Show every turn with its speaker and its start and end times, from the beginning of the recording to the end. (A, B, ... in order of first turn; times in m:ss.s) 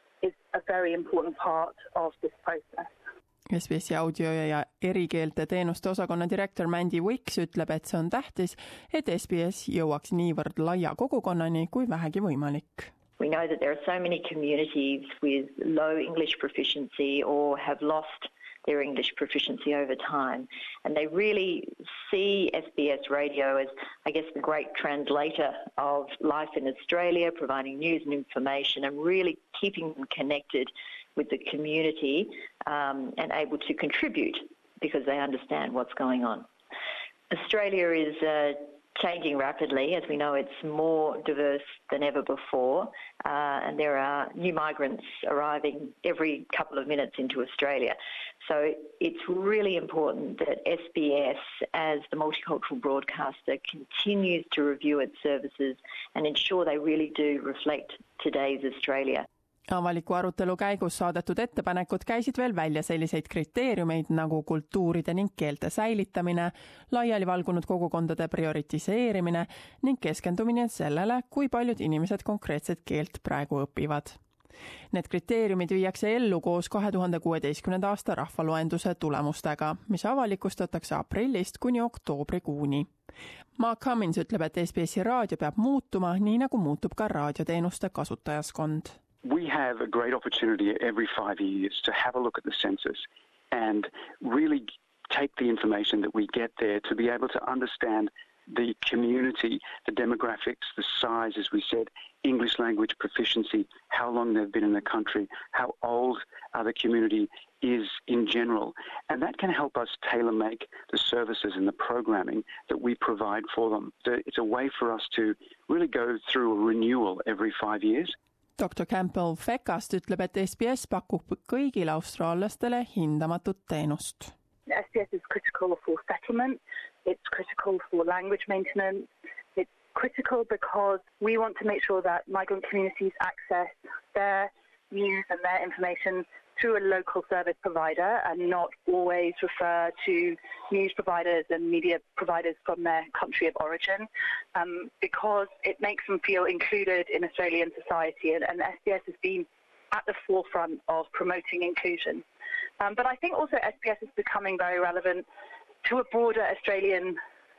0:00.2-0:02.9 A
0:03.5-0:12.9 B
0:13.2-0:36.5 C
0:37.3-0:59.2 C
0:59.7-1:14.2 B
1:14.9-1:22.9 B
1:23.6-1:29.0 B
1:29.2-1:58.2 D
1:58.6-2:04.3 B
2:04.7-2:32.2 A
2:32.8-2:35.2 A
2:35.8-2:37.2 A